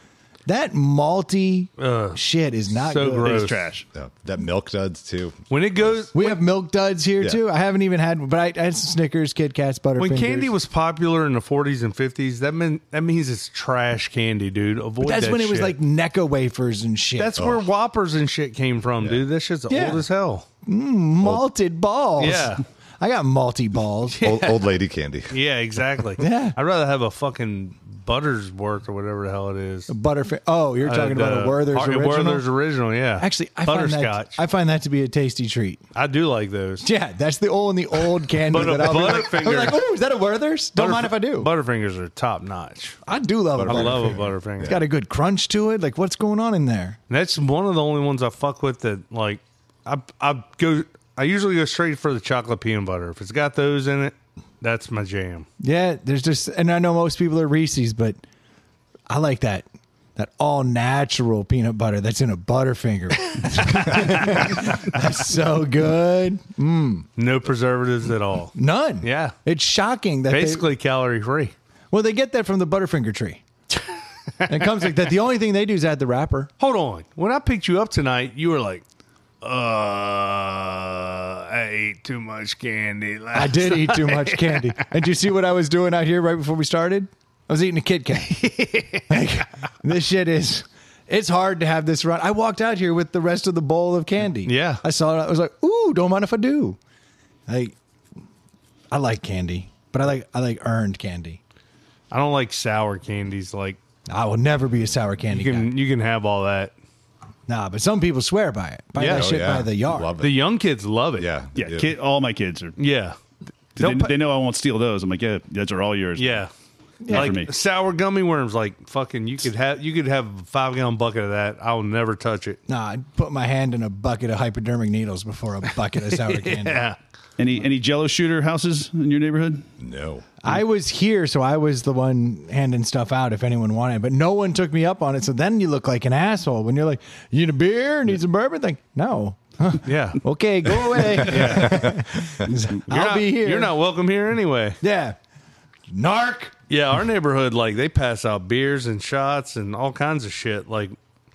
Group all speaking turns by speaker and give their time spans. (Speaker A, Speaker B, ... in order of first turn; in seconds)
Speaker A: 0.5-3.5, 6.1-10.5, 15.0-17.6, 19.7-20.1, 20.6-24.2, 26.2-26.6, 29.9-32.4, 33.2-35.8, 36.8-41.5, 43.1-47.0, 55.6-58.2, 59.1-67.1, 68.6-70.7, 71.9-73.4, 74.5-76.5, 83.3-88.5, 89.1-96.8, 97.5-97.8, 98.9-101.4, 104.1-105.7, 107.5-110.1, 117.0-117.4, 122.7-126.8, 130.4-143.7, 144.8-145.2, 145.9-146.5
Speaker B: 1.8-2.2, 2.8-3.7, 5.5-6.4, 10.0-15.8, 17.2-20.5, 22.2-22.6, 24.1-24.7, 25.3-29.9, 30.8-34.4, 36.0-36.9, 38.5-39.8, 40.8-43.0, 43.6-44.8, 47.1-55.5, 63.3-64.8, 67.2-69.3, 70.3-71.5, 73.8-74.5, 76.6-78.8, 79.4-84.7, 88.3-89.2, 94.5-94.8, 102.1-103.8, 105.3-106.7, 109.0-109.3, 110.2-111.3, 112.8-113.2, 113.8-114.1, 116.2-116.5, 117.1-122.6, 126.1-127.0, 139.8-140.2, 141.2-141.9, 142.9-144.8, 146.7-150.9
Speaker C: 3.1-3.9, 111.6-112.8, 113.8-116.4, 117.1-117.5, 127.4-129.7
Speaker D: 3.9-6.0, 24.2-25.4, 43.6-44.8, 109.0-110.5, 111.2-111.9, 129.8-130.3, 141.4-142.5